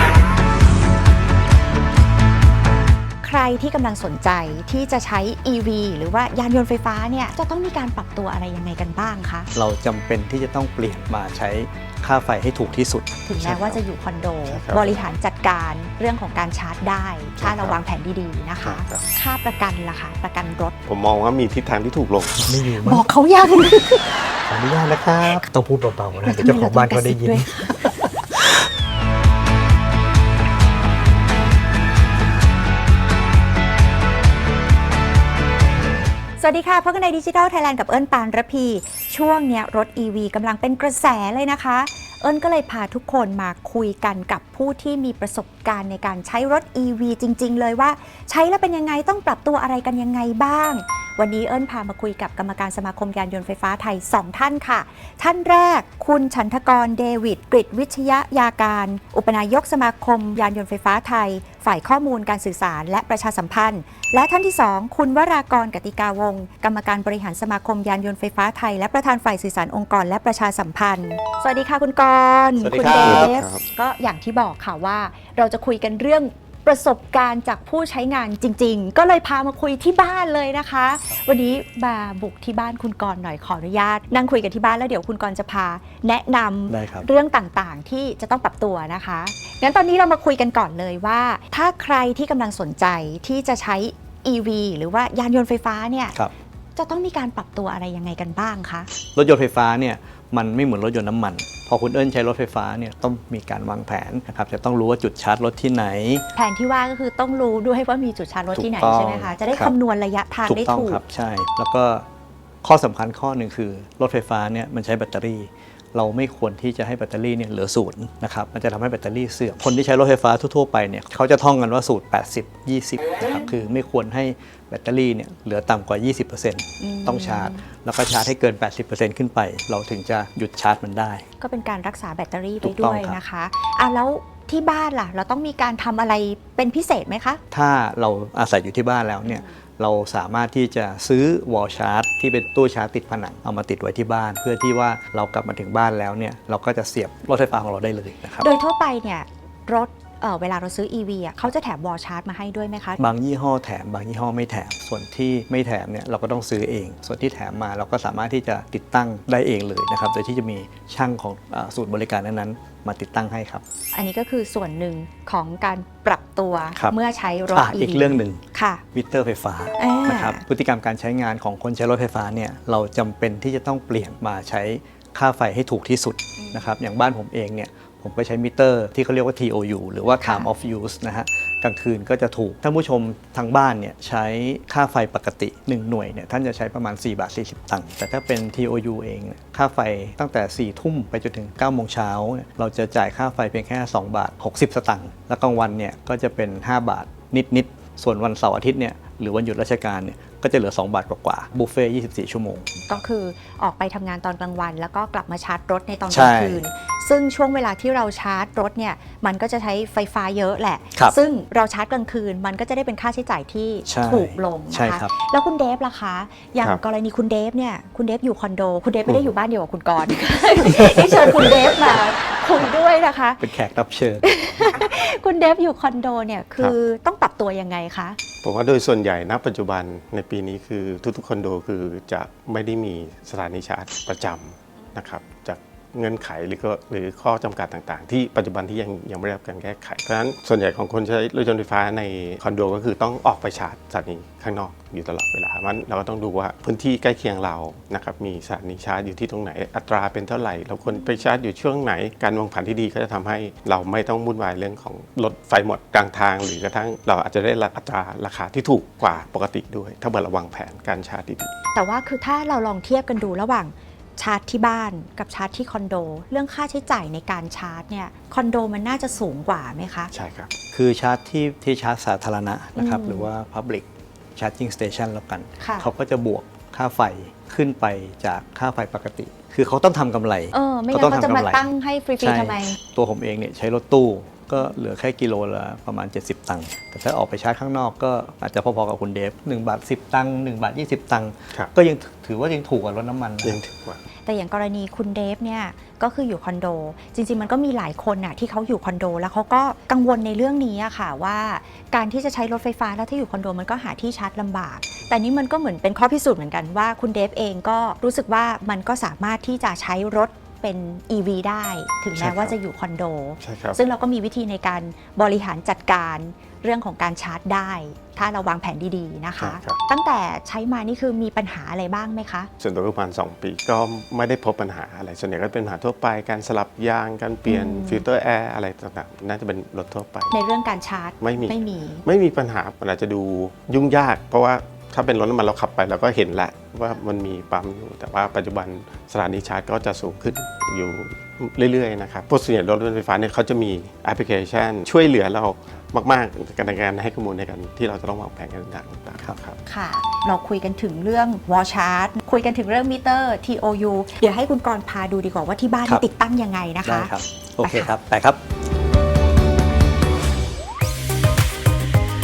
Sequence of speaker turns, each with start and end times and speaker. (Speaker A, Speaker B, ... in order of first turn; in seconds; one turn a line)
Speaker A: 3.2-9.5
Speaker B: 9.5-13.8
Speaker A: 13.2-20.7
Speaker C: 14.5-15.0
Speaker C: 17.4-17.8
Speaker C: 18.6-19.0
Speaker C: 20.9-22.5
Speaker B: 22.4-23.1
Speaker A: 22.7-24.1
Speaker B: 24.5-28.4
Speaker A: 26.2-27.9
Speaker A: 36.4-96.2
Speaker B: 72.6-73.3
Speaker C: 73.0-73.6
Speaker B: 86.7-87.1
Speaker A: 96.8-98.9
Speaker B: 99.1-106.2
Speaker A: 106.3-111.0
Speaker B: 108.5-109.7
Speaker B: 110.5-112.0
Speaker B: 112.6-131.2
Speaker A: 126.8-127.6
Speaker A: 131.4-137.4
Speaker B: 132.6-133.2
Speaker B: 137.5-148.5
Speaker A: 139.2-139.5
Speaker A: 148.4-153.0
Speaker B: 153.0-163.6
Speaker A: 163.9-168.8
Speaker B: 167.5-168.4
Speaker B: 168.9-202.9
Speaker A: 169.8-170.4
Speaker A: 176.4-176.7
Speaker A: 180.2-180.5
Speaker A: 202.8-223.5
Speaker B: 206.1-206.6
Speaker B: 213.9-215.1
Speaker B: 220.6-221.9
Speaker B: 223.4-224.2
Speaker A: 224.2-228.2
Speaker C: 228.4-261.5
Speaker A: 261.7-270.1
Speaker C: 270.1-270.5
Speaker B: 270.7-281.7
Speaker A: 272.8-273.3
Speaker A: 275.6-275.9
Speaker A: 280.5-282.8
Speaker B: 282.2-293.6
Speaker C: 293.4-294.0
Speaker A: 294.2-322.5
Speaker C: 312.1-312.5
Speaker C: 313.4-313.8
Speaker C: 319.4-319.8
Speaker C: 322.6-330.3
Speaker A: 327.5-328.0
Speaker A: 330.3-332.0
Speaker C: 331.2-349.6
Speaker A: 349.6-357.9
Speaker B: 356.8-358.4